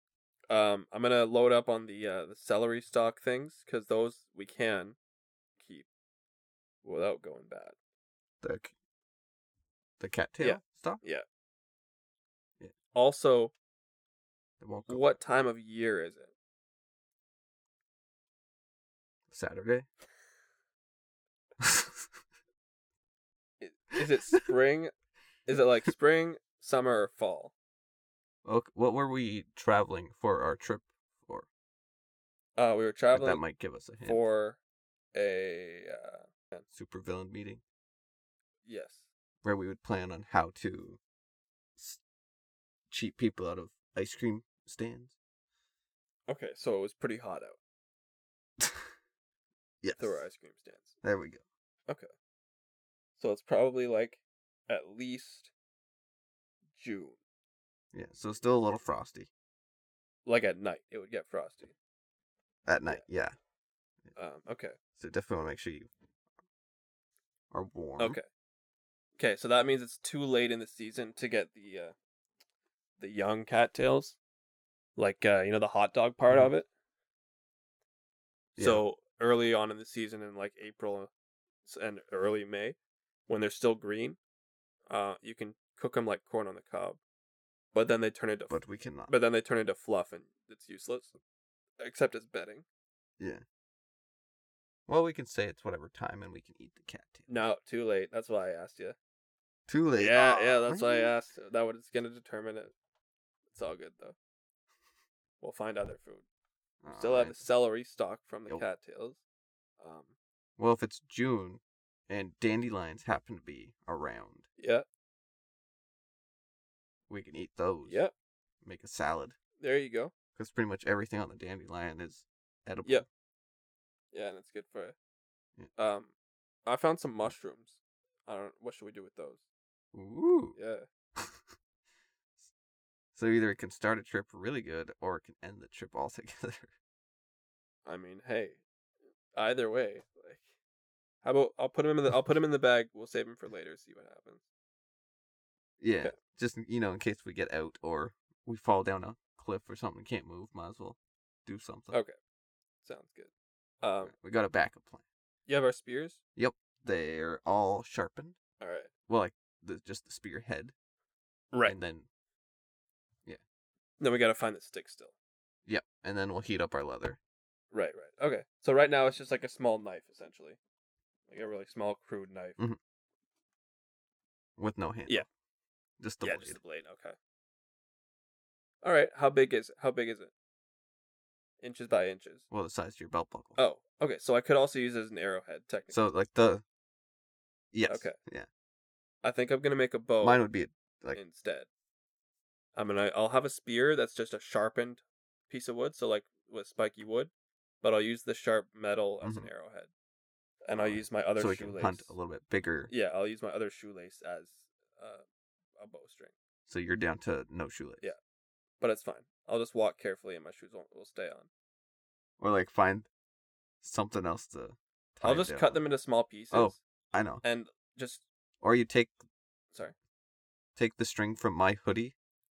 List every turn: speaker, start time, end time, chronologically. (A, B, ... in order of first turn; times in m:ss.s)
0:00.5-0:05.0 A
0:05.6-0:05.9 A
0:06.8-0:07.8 A
0:08.4-0:08.7 B
0:10.0-0:11.0 B
0:10.4-0:11.2 A
0:12.9-0:13.5 A
0:14.6-0:15.1 B
0:14.9-0:16.3 A
0:19.3-0:19.9 B
0:21.6-0:22.0 B
0:23.6-0:24.9 A
0:25.5-0:27.5 A
0:28.4-0:31.5 B
0:32.6-0:33.4 A
0:33.1-0:34.2 B
0:34.0-0:34.6 A
0:35.1-0:36.6 A
0:36.7-0:37.6 B
0:38.6-0:39.1 A
0:39.4-0:41.0 B
0:42.9-0:45.2 B
0:46.3-0:47.6 A
0:49.8-0:50.3 B
0:50.0-0:51.0 A
0:51.0-0:51.4 B
0:53.2-0:55.5 A
0:56.7-0:57.2 A
0:57.9-0:59.3 B
1:00.3-1:01.8 A
1:02.7-1:03.4 B
1:04.2-1:04.8 A
1:05.0-1:05.9 B
1:07.5-1:08.2 B
1:08.0-1:08.2 A
1:09.2-1:12.0 A
1:13.0-1:14.2 A
1:15.0-1:16.7 A
1:18.6-1:18.8 B
1:18.6-1:21.1 A
1:21.6-1:22.8 A
1:23.3-1:24.2 A
1:24.9-1:27.0 A
1:27.7-1:31.2 A
1:28.5-1:29.1 B
1:31.8-1:32.6 A
1:34.9-1:37.3 B
1:37.3-1:39.0 A
1:39.7-1:41.2 B
1:40.0-1:42.7 A
1:43.5-1:44.2 A
1:45.4-1:46.2 A
1:46.8-1:47.5 B
1:46.9-1:49.2 A
1:49.8-1:50.1 A
1:50.6-1:54.5 B
1:54.6-1:54.9 A
1:57.1-1:58.0 B
1:57.8-1:58.1 A
1:58.6-1:59.4 B
1:59.6-2:00.1 A
2:00.4-2:03.1 B
2:04.1-2:05.0 A
2:05.8-2:06.1 A
2:06.7-2:09.4 A
2:09.9-2:10.6 B
2:10.6-2:10.9 A
2:13.2-2:16.7 B
2:17.9-2:18.6 A
2:19.3-2:20.5 A
2:21.2-2:24.4 A
2:25.8-2:32.0 B
2:32.8-2:33.3 A
2:33.8-2:34.1 A
2:34.0-2:35.0 B
2:35.5-2:36.2 A
2:36.4-2:38.4 B
2:38.6-2:38.9 A
2:39.1-2:40.7 B
2:41.6-2:42.1 B
2:44.0-2:45.1 A
2:45.7-2:47.2 B
2:47.7-2:50.6 A
2:51.3-2:52.6 A
2:54.6-2:55.3 B
2:56.0-2:56.6 B
2:56.2-2:57.2 A
2:58.8-3:00.3 A
3:01.6-3:02.4 A
3:02.5-3:03.6 B
3:03.6-3:06.0 A
3:05.9-3:06.6 B
3:07.7-3:08.5 B
3:07.9-3:08.2 A
3:09.2-3:10.4 A
3:10.2-3:11.2 B
3:11.2-3:11.7 A
3:12.8-3:17.3 A
3:17.8-3:19.9 A
3:19.2-3:19.5 B
3:20.7-3:22.1 A
3:20.7-3:22.9 B
3:22.9-3:25.2 A
3:25.8-3:26.3 A
3:26.7-3:28.1 B
3:28.8-3:31.5 A
3:32.4-3:33.1 B
3:33.8-3:35.8 B
3:35.2-3:36.8 A
3:36.5-3:37.4 B
3:37.4-3:38.2 A
3:38.6-3:39.2 B
3:40.8-3:42.2 B